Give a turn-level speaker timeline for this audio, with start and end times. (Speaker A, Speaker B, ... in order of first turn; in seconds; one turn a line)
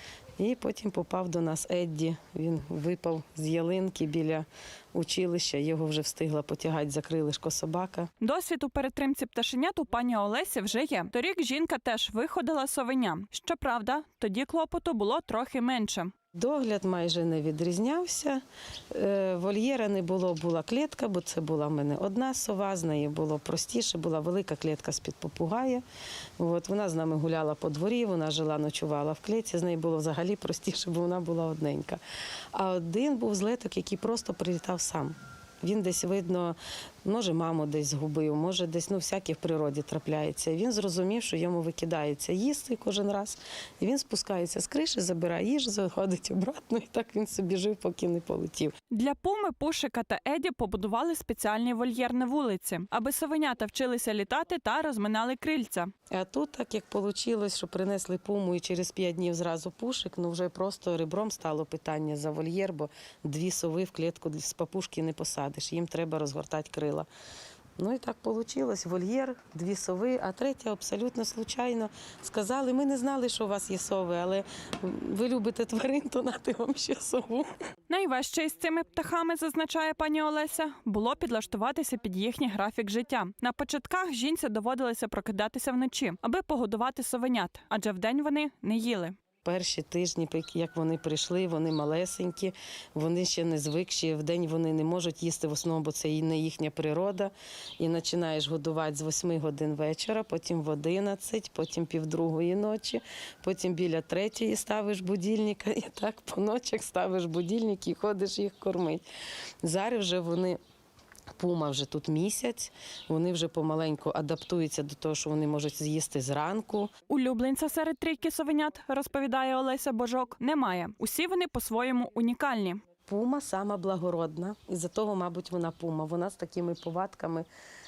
Speaker A: 0.4-8.1
Speaker B: 8.2-16.1
Speaker A: 16.3-25.8
Speaker A: 26.4-32.0
Speaker A: 32.5-48.7
Speaker B: 48.9-55.9
Speaker A: 56.1-67.1
Speaker A: 67.8-77.5
Speaker B: 77.9-89.2
Speaker A: 89.4-109.0
Speaker A: 109.6-110.6
Speaker A: 111.4-116.9
Speaker B: 117.1-122.8
Speaker A: 123.0-127.5